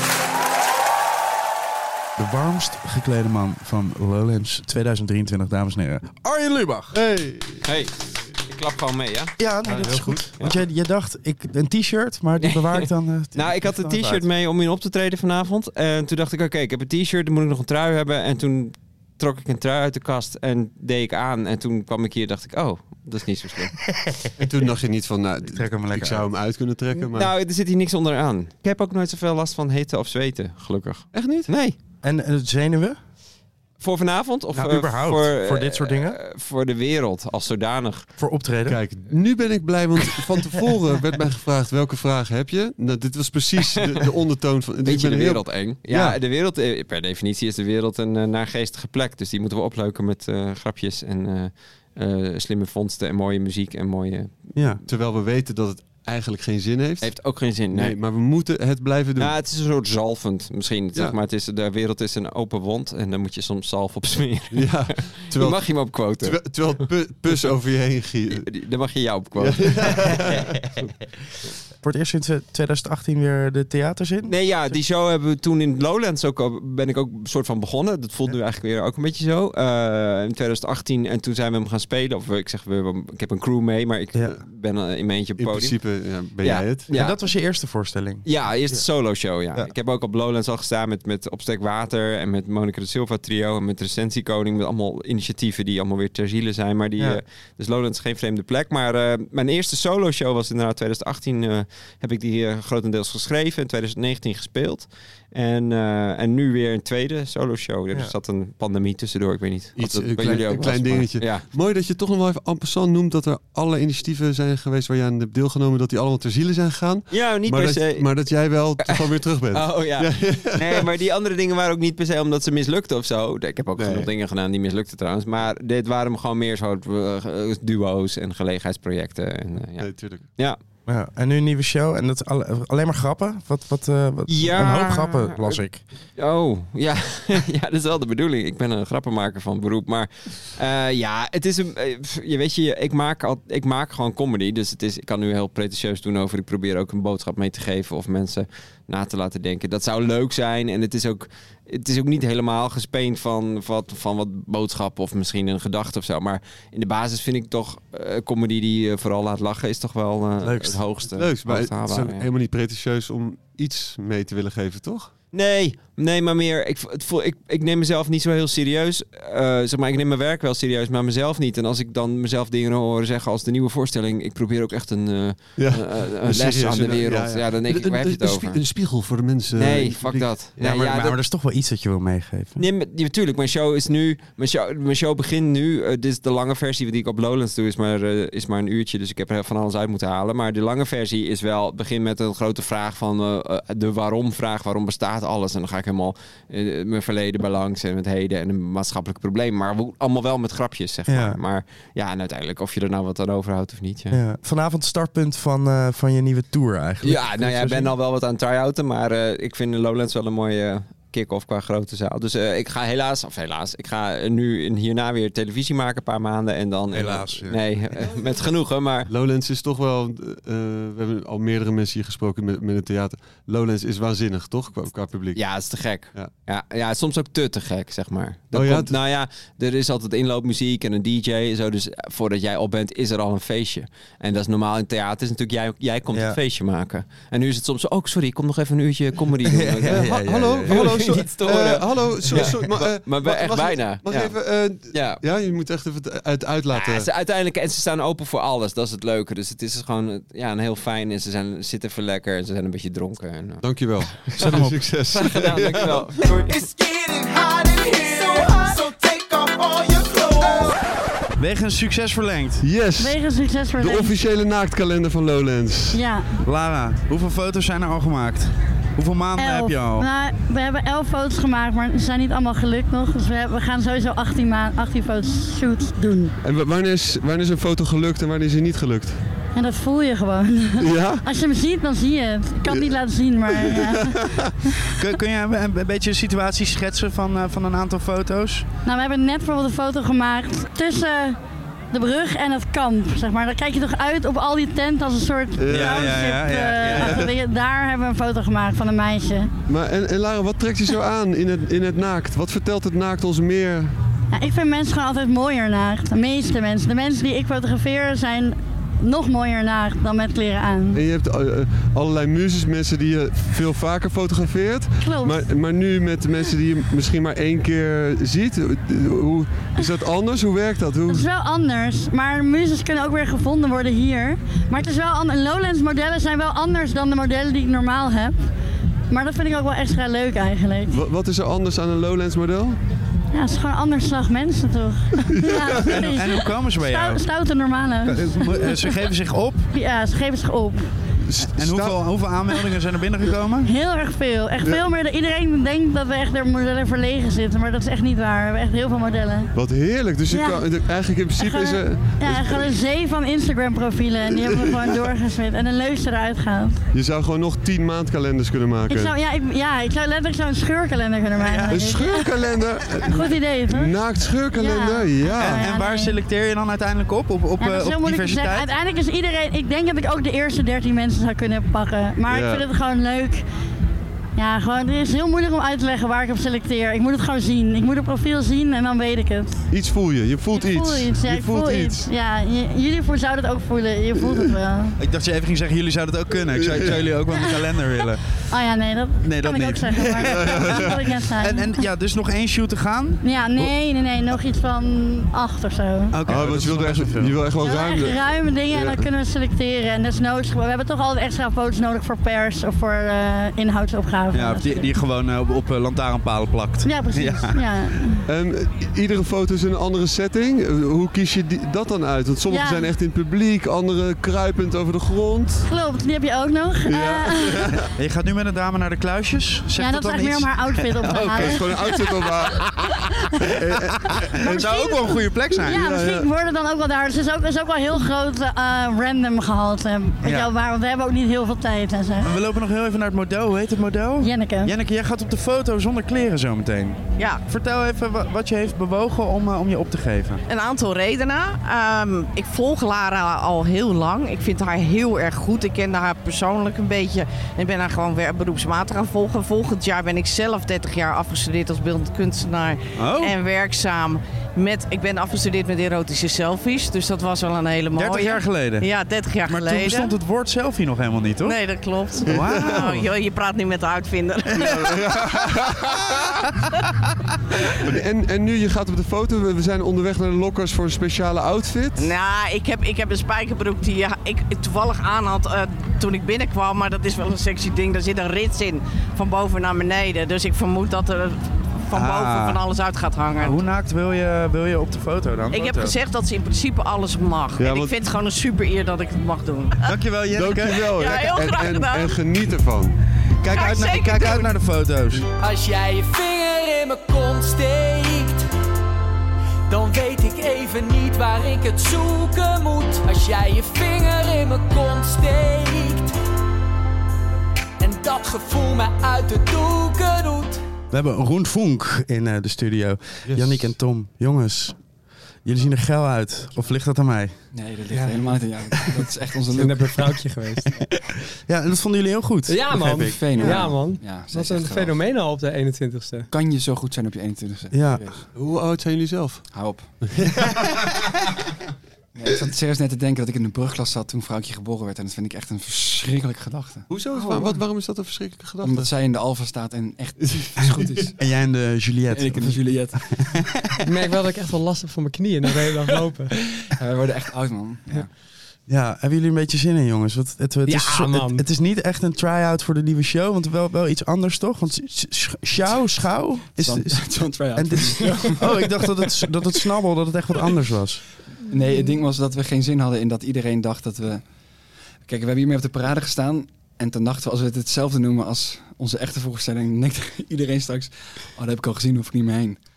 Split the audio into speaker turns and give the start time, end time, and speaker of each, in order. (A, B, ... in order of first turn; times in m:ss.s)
0:02.2-0:07.0 A
0:06.9-0:07.7 B
0:07.6-0:09.4 C
0:09.4-0:14.2 A
0:09.6-0:10.4 B
0:12.4-0:23.8 C
0:24.4-0:27.3 B
0:25.5-0:26.3 A
0:27.1-0:31.8 C
0:31.1-0:31.5 B
0:32.0-0:33.0 A
0:33.8-0:38.1 C
0:34.5-0:36.2 A
0:38.2-0:38.8 A
0:38.6-0:46.2 B
0:44.8-0:54.5 C
0:54.5-0:54.8 A
0:54.8-0:59.3 B
0:57.0-0:58.0 C
0:59.2-1:06.5 C
1:04.5-1:08.5 B
1:08.3-1:10.3 C
1:09.4-1:10.4 B
1:11.8-1:14.8 A
1:14.2-1:27.2 C
1:25.4-1:26.9 B
1:26.9-1:28.3 A
1:28.2-1:51.4 C
1:49.8-2:00.8 B
1:57.1-1:58.1 C
1:59.5-2:10.6 C
2:03.8-2:04.1 B
2:09.7-2:10.2 B
2:10.8-2:15.8 A
2:14.3-2:15.6 C
2:16.2-2:42.2 C
2:40.4-2:40.8 A
2:41.2-2:45.1 B
2:45.3-2:58.8 C
2:55.6-3:00.4 B
2:59.5-3:01.2 C
3:00.6-3:02.6 A
3:02.6-3:24.2 C
3:21.1-3:21.4 A
3:24.1-3:27.9 A
3:27.0-3:39.1 C
3:36.9-3:37.8 A
3:39.1-3:45.4 B
3:45.3-4:00.1 C
3:48.5-3:49.0 B
3:56.1-3:56.4 A
3:59.5-4:01.0 A
3:59.8-4:07.1 B
4:00.6-4:05.2 C
4:06.7-4:14.3 C
4:13.6-4:16.1 B
4:14.4-4:14.8 A
4:15.1-4:16.7 C
4:16.5-4:20.7 D
4:21.4-4:22.6 A
4:22.6-4:23.2 B
4:23.0-4:24.2 E
4:23.8-4:26.0 B
4:25.9-4:26.3 E
4:26.4-4:30.1 A
4:29.4-4:36.3 E
4:36.4-4:39.2 B
4:39.5-4:44.2 E
4:40.8-4:41.2 B
4:42.7-4:43.0 B
4:43.5-4:44.5 B
4:45.0-4:48.7 A
4:48.8-4:51.4 E
4:51.9-4:59.5 E
4:55.6-4:56.3 B
4:55.7-4:57.3 A
4:56.9-4:57.3 B
4:59.7-5:04.0 B
5:04.3-5:11.0 E
5:10.9-5:21.2 B
5:15.0-5:15.4 E
5:21.1-5:28.4 E
5:29.1-5:31.0 E
5:30.9-5:32.8 B
5:33.3-5:38.9 E
5:35.3-5:36.0 B
5:35.9-5:37.2 A
5:38.0-5:39.7 A
5:39.7-5:40.9 E
5:41.3-5:42.0 B
5:41.4-5:43.7 A
5:43.6-5:49.5 E
5:49.5-5:52.7 B
5:50.3-5:50.6 E
5:51.3-5:56.8 E
5:54.3-5:55.1 B
5:56.9-5:59.1 B
5:58.9-6:02.3 E
6:01.4-6:02.0 A
6:01.7-6:05.7 B
6:03.0-6:04.0 E
6:04.5-6:06.2 E
6:05.4-6:08.7 A
6:07.6-6:13.4 E
6:12.3-6:12.6 B
6:14.4-6:19.6 E
6:19.7-6:22.1 B
6:20.5-6:25.0 E
6:24.2-6:24.5 B
6:25.0-6:28.2 A
6:26.5-6:27.0 B
6:27.4-6:27.6 E
6:28.5-6:31.8 E
6:29.2-6:33.7 A
6:30.2-6:31.1 B
6:33.2-6:36.2 E
6:36.1-6:37.4 A
6:36.3-6:39.0 B
6:37.6-6:44.9 E
6:44.3-6:47.6 A
6:46.8-6:48.2 E
6:48.2-6:55.7 B
6:52.5-6:52.9 E
6:55.6-6:57.7 E
6:56.8-6:57.8 B
6:57.9-7:01.9 A
6:59.8-7:02.1 E
7:01.2-7:02.7 B
7:03.4-7:05.0 B
7:04.4-7:12.3 E
7:04.4-7:05.9 A
7:05.6-7:06.3 B
7:10.2-7:10.5 A
7:12.2-7:20.4 A
7:14.2-7:14.7 E
7:20.5-7:40.2 F
7:32.9-7:33.4 A
7:37.9-7:38.9 A
7:39.4-7:41.6 A
7:41.4-7:44.9 F
7:42.2-7:43.1 A
7:42.2-7:43.0 B
7:44.5-7:45.1 A
7:44.5-7:46.4 B
7:47.8-7:52.1 B
7:52.0-8:03.6 F
8:01.9-8:02.6 A
8:03.4-8:06.0 A
8:05.5-8:09.9 F
8:07.6-8:08.0 B
8:09.8-8:11.0 A
8:10.3-8:12.9 B
8:10.8-8:12.2 F
8:13.4-8:15.3 A
8:13.5-8:14.5 F
8:15.4-8:18.4 G
8:19.7-8:26.1 G
8:27.8-8:30.6 G
8:30.9-8:34.8 A
8:33.3-8:33.7 B
8:35.4-8:37.3 A
8:37.5-8:40.1 H
8:37.9-8:38.5 I
8:39.5-8:40.7 I
8:41.5-8:43.7 A
8:42.5-8:46.3 I
8:43.0-8:45.0 H
8:46.3-8:48.2 H
8:47.7-8:48.0 A
8:48.3-8:49.5 B
8:49.5-8:49.9 H
8:50.0-8:50.8 B
8:52.1-8:56.9 H
8:56.9-8:58.9 B
8:58.6-9:01.1 H
9:00.4-9:00.8 B
9:01.2-9:03.5 A
9:02.1-9:03.0 H
9:03.8-9:06.3 I
9:06.3-9:08.1 H
9:08.7-9:21.0 A
9:10.6-9:11.4 I
9:16.6-9:19.1 H
9:21.5-9:24.2 H
9:25.0-9:32.6 H